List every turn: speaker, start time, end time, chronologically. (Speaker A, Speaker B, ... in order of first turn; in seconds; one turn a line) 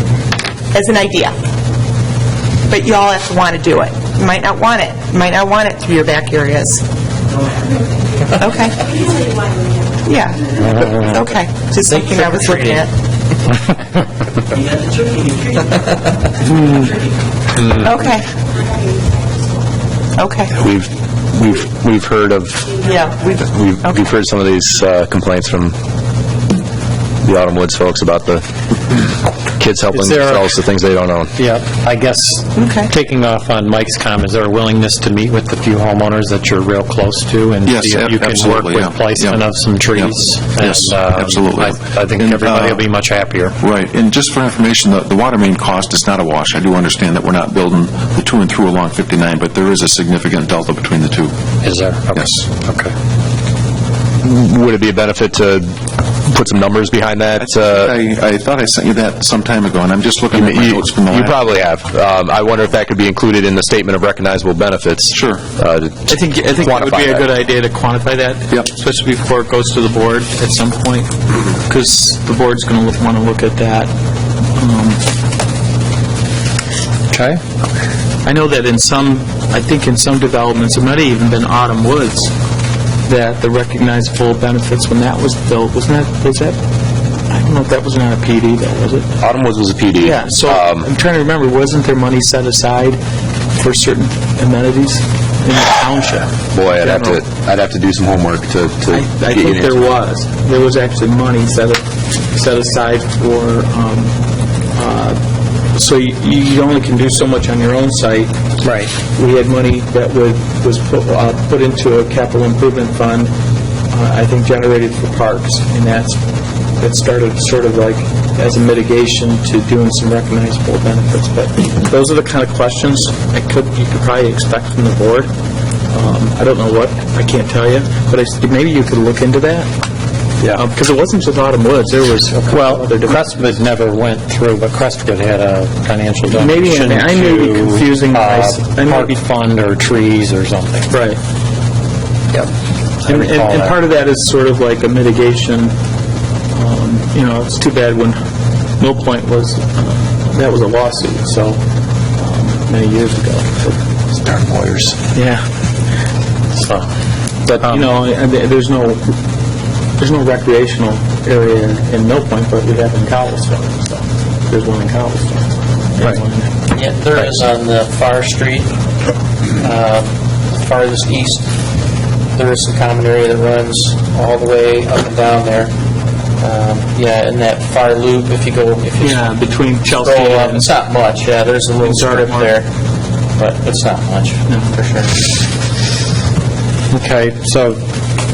Speaker A: 0.7-1.4
Speaker A: 2.7-6.8
Speaker A: 8.3-8.8
Speaker A: 10.0-10.4
Speaker B: 10.6-11.0
Speaker A: 11.1-12.9
Speaker A: 17.8-18.3
Speaker A: 20.2-20.6
Speaker C: 20.6-25.8
Speaker A: 22.9-24.1
Speaker C: 27.2-28.5
Speaker C: 29.6-31.3
Speaker B: 29.9-30.6
Speaker B: 31.3-43.6
Speaker A: 32.5-32.9
Speaker D: 37.7-39.4
Speaker D: 40.0-42.8
Speaker D: 43.6-51.3
Speaker B: 51.6-52.9
Speaker D: 52.2-52.4
Speaker C: 54.2-55.8
Speaker C: 56.3-57.9
Speaker D: 57.4-61.3
Speaker C: 60.3-67.3
Speaker D: 65.1-65.4
Speaker E: 66.1-71.1
Speaker E: 71.7-73.9
Speaker E: 74.5-75.0
Speaker B: 77.1-77.4
Speaker E: 78.2-82.3
Speaker E: 83.1-86.6
Speaker E: 87.3-89.1
Speaker C: 89.2-90.9
Speaker E: 90.0-93.0
Speaker E: 93.5-97.2
Speaker C: 96.5-99.9
Speaker E: 99.0-104.1
Speaker E: 104.7-105.2
Speaker E: 105.7-108.3
Speaker B: 108.6-108.9
Speaker E: 109.2-113.3
Speaker E: 113.9-116.2
Speaker E: 116.8-125.3
Speaker E: 125.9-129.7
Speaker E: 130.6-133.3
Speaker B: 132.3-140.9
Speaker E: 136.3-139.2
Speaker E: 140.9-141.2
Speaker B: 143.0-143.8
Speaker E: 143.1-145.7
Speaker E: 146.5-148.2
Speaker E: 148.8-151.6
Speaker E: 152.2-153.8
Speaker E: 155.1-155.4
Speaker B: 156.6-156.9
Speaker B: 157.5-158.0
Speaker E: 157.5-159.1
Speaker E: 160.0-166.5
Speaker F: 166.7-168.7
Speaker F: 169.6-171.5
Speaker F: 172.3-175.7
Speaker F: 176.4-182.7
Speaker E: 179.0-180.7
Speaker E: 181.8-182.5
Speaker F: 183.4-185.2
Speaker E: 184.5-184.7
Speaker B: 186.9-187.8